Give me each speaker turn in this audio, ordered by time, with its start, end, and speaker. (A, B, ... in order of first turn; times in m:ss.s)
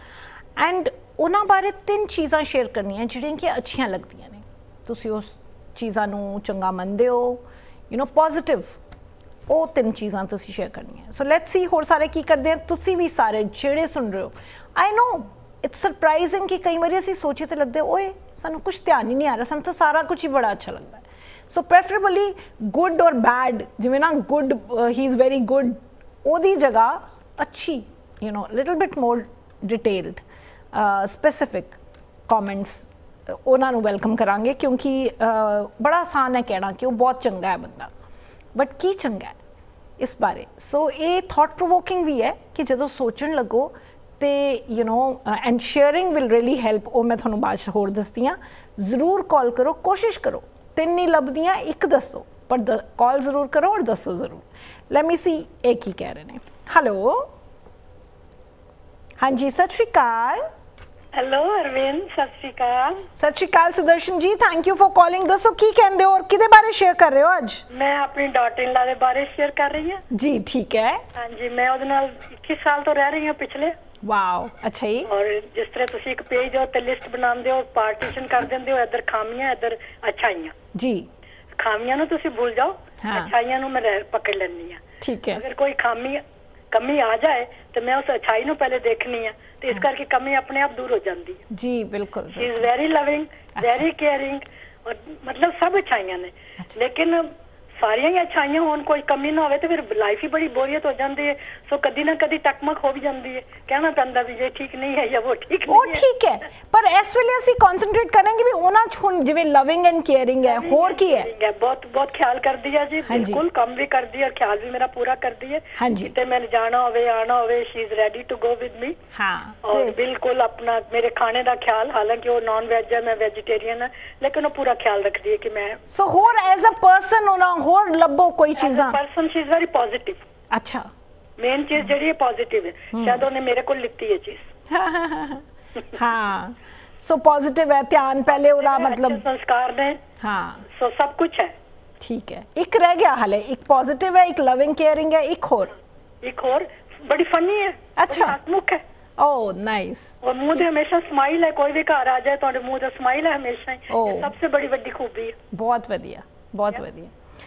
0:00.6-0:08.8 A
0:09.5-0:31.8 A
0:32.3-0:37.9 A
0:38.6-0:39.4 A
0:40.0-0:57.3 A
0:59.2-1:00.4 A
1:01.1-1:03.0 B
1:03.2-1:07.6 A
1:07.7-1:10.0 B
1:10.1-1:11.0 A
1:11.2-1:13.8 B
1:14.0-1:15.1 A
1:15.1-1:20.5 B
1:20.7-1:21.1 A
1:21.6-1:24.8 B
1:23.0-1:23.3 A
1:25.0-1:25.4 A
1:25.3-1:31.4 B
1:31.5-1:32.7 A
1:32.3-1:46.1 B
1:33.6-1:33.8 A
1:45.7-1:51.3 A
1:50.4-1:59.0 B
1:53.1-1:53.4 A
1:55.8-1:56.2 A
1:59.1-2:00.0 A
1:59.6-2:05.8 B
2:05.9-2:09.0 A
2:08.6-2:10.2 B
2:10.5-2:10.9 A
2:11.4-2:14.4 B
2:12.9-2:13.3 A
2:14.7-2:19.2 A
2:18.3-2:20.0 B
2:20.2-2:20.6 A
2:20.7-2:21.5 B
2:22.0-2:25.7 A
2:26.2-2:28.8 B
2:28.0-2:28.4 A
2:29.2-2:30.7 A
2:30.2-2:35.4 B
2:33.9-2:34.3 A
2:35.5-2:37.1 A